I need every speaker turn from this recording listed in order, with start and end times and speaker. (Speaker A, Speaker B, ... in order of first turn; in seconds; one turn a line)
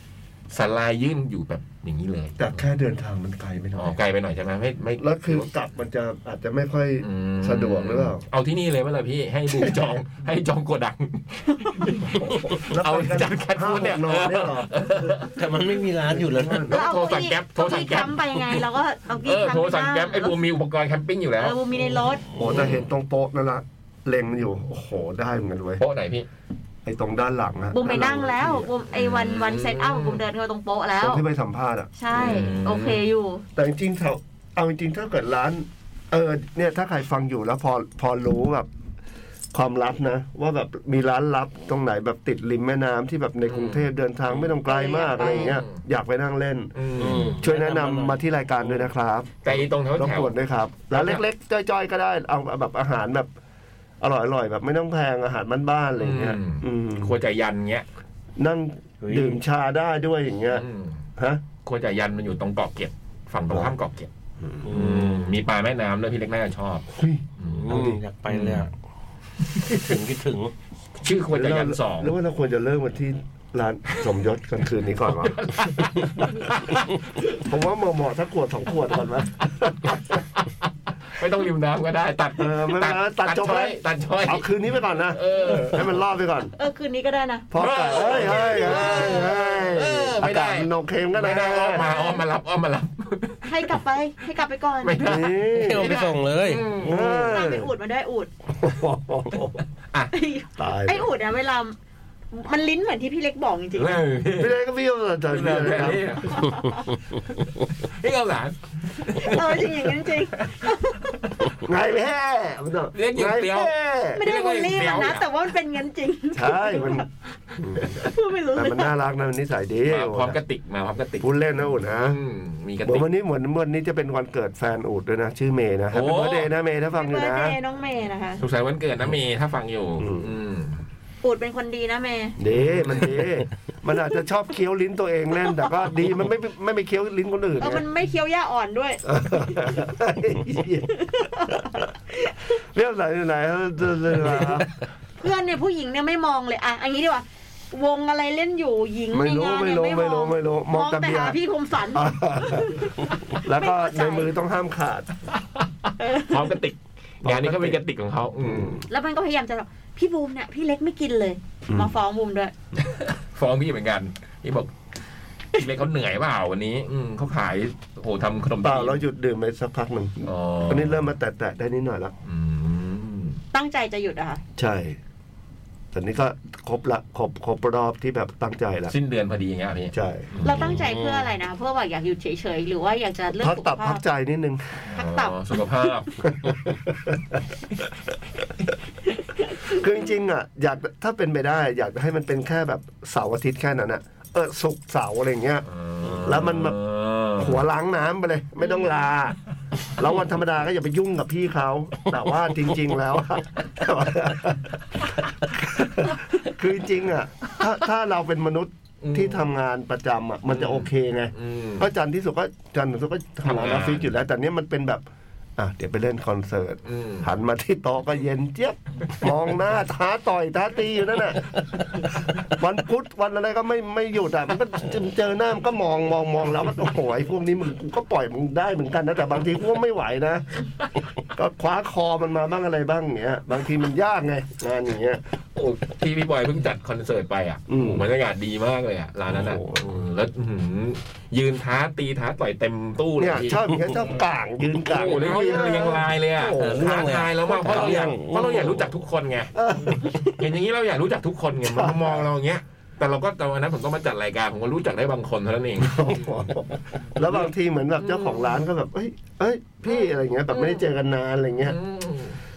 Speaker A: 0.5-2.6
Speaker B: 2.4-4.0
Speaker A: 3.8-5.5
Speaker B: 5.0-8.2
Speaker A: 7.0-15.3
Speaker B: 9.5-9.9
Speaker C: 11.5-11.9
Speaker B: 12.5-14.7
Speaker D: 15.3-16.7
Speaker B: 16.1-16.8
Speaker A: 16.7-18.6
Speaker C: 16.7-20.4
Speaker A: 19.2-21.6
Speaker C: 21.4-22.3
Speaker B: 22.4-25.8
Speaker A: 22.4-22.8
Speaker A: 25.8-26.3
Speaker B: 26.9-28.7
Speaker C: 27.7-31.2
Speaker A: 28.9-30.2
Speaker B: 31.0-32.5
Speaker C: 32.0-33.5
Speaker A: 32.1-33.0
Speaker B: 33.6-38.7
Speaker B: 39.5-46.8
Speaker A: 43.5-44.6
Speaker C: 44.6-45.6
Speaker A: 45.2-45.8
Speaker A: 46.8-47.4
Speaker D: 47.0-48.2
Speaker B: 47.4-53.3
Speaker A: 49.4-50.4
Speaker A: 50.9-51.2
Speaker B: 54.0-57.2
Speaker A: 56.0-57.9
Speaker B: 58.4-60.7
Speaker D: 59.0-59.4
Speaker A: 60.5-61.0
Speaker B: 61.2-61.4
Speaker A: 61.6-64.1
Speaker B: 64.4-64.7
Speaker D: 64.7-65.3
Speaker A: 64.7-66.9
Speaker B: 67.0-68.0
Speaker A: 67.4-67.7
Speaker D: 67.5-68.7
Speaker A: 68.3-68.7
Speaker D: 69.7-70.5
Speaker A: 71.0-72.1
Speaker B: 71.3-75.4
Speaker A: 75.2-77.2
Speaker B: 77.3-80.0
Speaker A: 79.9-80.5
Speaker A: 81.1-84.5
Speaker B: 82.4-86.5
Speaker A: 85.1-85.9
Speaker C: 86.5-89.3
Speaker B: 87.5-91.9
Speaker A: 87.6-93.7
Speaker C: 91.7-92.2
Speaker C: 93.4-95.3
Speaker A: 94.8-97.0
Speaker B: 95.0-96.0
Speaker D: 95.5-97.3
Speaker B: 96.8-97.7
Speaker C: 97.1-98.3
Speaker B: 98.6-99.6
Speaker C: 100.1-101.7
Speaker B: 100.6-101.1
Speaker C: 102.3-104.0
Speaker A: 103.8-104.6
Speaker B: 104.4-106.2
Speaker A: 105.3-106.5
Speaker C: 106.3-107.0
Speaker A: 107.3-110.7
Speaker C: 109.2-111.2
Speaker B: 111.6-114.2
Speaker A: 112.9-115.2
Speaker C: 114.2-117.0
Speaker B: 116.3-117.1
Speaker B: 117.6-120.4
Speaker C: 118.0-118.9
Speaker A: 119.9-121.3
Speaker B: 121.2-122.2
Speaker A: 122.0-123.1
Speaker B: 122.8-127.6
Speaker A: 125.9-126.5
Speaker C: 126.9-128.4
Speaker A: 128.4-130.8
Speaker B: 130.0-130.3
Speaker C: 131.2-132.4
Speaker B: 132.4-137.8
Speaker A: 132.5-133.2
Speaker C: 137.6-139.0
Speaker B: 139.1-141.6
Speaker C: 140.9-142.4
Speaker B: 142.6-144.7
Speaker C: 145.2-154.3
Speaker B: 149.1-151.4
Speaker B: 151.9-155.2
Speaker A: 155.9-158.8
Speaker C: 156.0-156.6
Speaker B: 157.2-157.8
Speaker B: 158.4-158.8
Speaker C: 158.9-162.5
Speaker A: 162.8-164.7
Speaker A: 165.6-169.0
Speaker B: 168.6-172.1
Speaker A: 170.3-171.1
Speaker A: 172.2-173.4
Speaker C: 173.5-174.4
Speaker B: 174.6-175.0
Speaker B: 175.9-178.9
Speaker A: 178.9-180.8
Speaker B: 179.9-180.3
Speaker C: 180.4-184.0
Speaker D: 180.6-181.3
Speaker B: 183.4-185.0
Speaker A: 184.9-186.7
Speaker C: 184.9-185.4
Speaker B: 186.2-187.4
Speaker B: 189.7-195.7
Speaker A: 195.7-197.6
Speaker B: 196.2-196.8
Speaker B: 197.4-199.4
Speaker B: 200.0-215.1
Speaker A: 209.0-209.4
Speaker A: 210.5-211.9
Speaker A: 213.4-214.1
Speaker B: 215.6-221.5
Speaker A: 216.9-217.3
Speaker B: 222.4-230.7
Speaker B: 231.3-235.2
Speaker A: 235.6-244.0
Speaker B: 237.7-238.1
Speaker B: 239.3-240.0
Speaker B: 243.2-247.1
Speaker A: 244.9-256.3
Speaker D: 245.0-245.8
Speaker D: 246.6-248.9
Speaker B: 247.6-248.1
Speaker B: 249.6-250.4
Speaker B: 251.6-252.2
Speaker B: 255.8-261.8
Speaker A: 258.0-258.6
Speaker A: 260.5-260.8
Speaker A: 261.6-262.4